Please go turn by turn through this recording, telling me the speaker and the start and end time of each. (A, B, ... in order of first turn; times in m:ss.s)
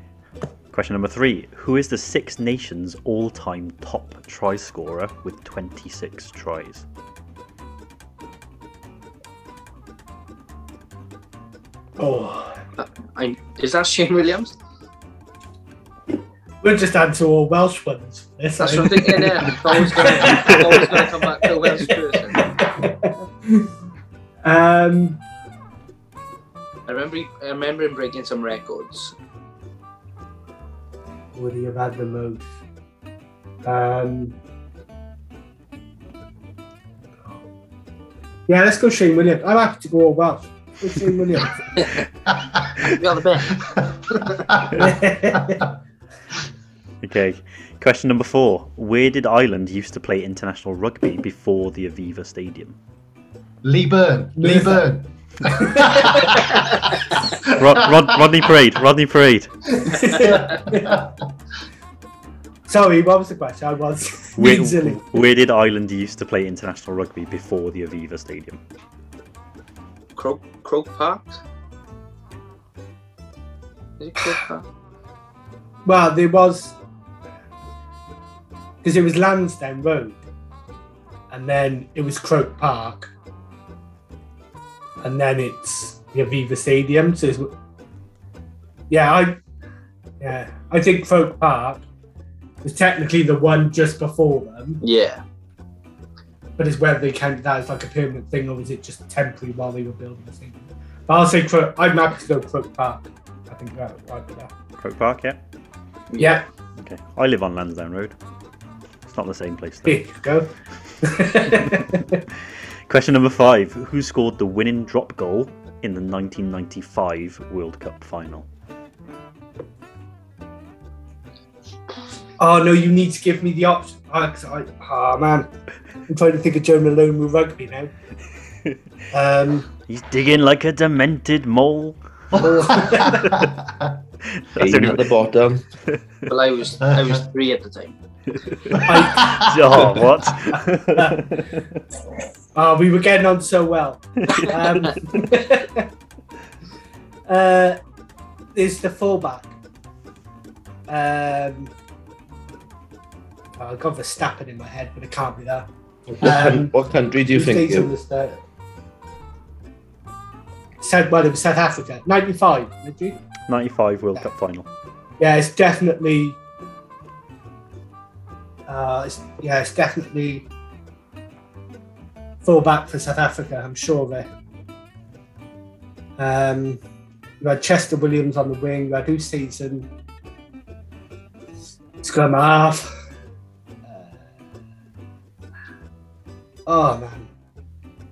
0:00.7-0:06.8 A
0:12.0-0:12.6 B
0:12.8-0:14.5 C
0:16.6-0:23.6 B
0:18.6-0:22.5 C
0:24.4-0:25.2 B
0:26.9-0:29.1 C
0:31.3-0:32.5 B
0:33.6-0:34.3 B
0:38.5-0:41.8 B
0:42.8-0:43.7 C
0:44.7-0:45.7 B
0:47.0-0:52.8 A
0:53.6-0:56.9 D
0:54.4-0:54.9 B
0:55.5-0:56.6 B
0:57.4-0:59.5 A
0:59.8-1:01.0 B
1:00.2-1:01.0 D
1:02.7-1:05.0 B
1:04.4-1:08.6 A
1:10.2-1:11.4 C
1:14.0-1:14.6 C
1:15.8-1:16.8 B
1:18.8-1:20.2 B
1:21.3-1:23.1 B
1:25.0-1:27.5 B
1:28.9-1:29.4 B
1:30.2-1:31.8 B
1:32.6-1:34.8 B
1:34.8-1:35.2 C
1:36.6-1:44.5 B
1:44.8-1:45.4 A
1:46.1-1:46.4 C
1:46.8-1:48.1 A
1:49.1-1:50.0 A
1:49.8-1:50.5 B
1:51.0-1:52.2 B
1:51.5-1:51.7 A
1:52.9-1:58.4 A
2:02.4-2:05.5 B
2:06.1-2:07.9 B
2:09.1-2:09.7 B
2:09.9-2:12.0 A
2:12.3-2:13.9 D
2:12.4-2:13.4 B
2:14.5-2:15.0 A
2:14.6-2:15.6 E
2:16.3-2:17.9 C
2:16.8-2:17.2 D
2:18.6-2:21.4 A
2:18.7-2:19.8 D
2:18.8-2:19.4 B
2:22.5-2:25.9 B
2:24.3-2:24.9 A
2:27.3-2:27.8 B
2:28.5-2:29.5 B
2:30.9-2:31.7 B
2:33.6-2:35.7 B
2:36.2-2:36.7 B
2:36.2-2:37.9 E
2:37.3-2:38.4 B
2:40.8-2:43.2 B
2:43.5-2:44.6 A
2:45.2-2:46.4 B
2:48.7-2:50.5 B
2:52.4-2:54.3 B
2:56.2-2:56.8 B
2:57.4-2:59.9 B
3:02.0-3:02.9 B
3:03.9-3:04.1 B
3:06.6-3:07.3 B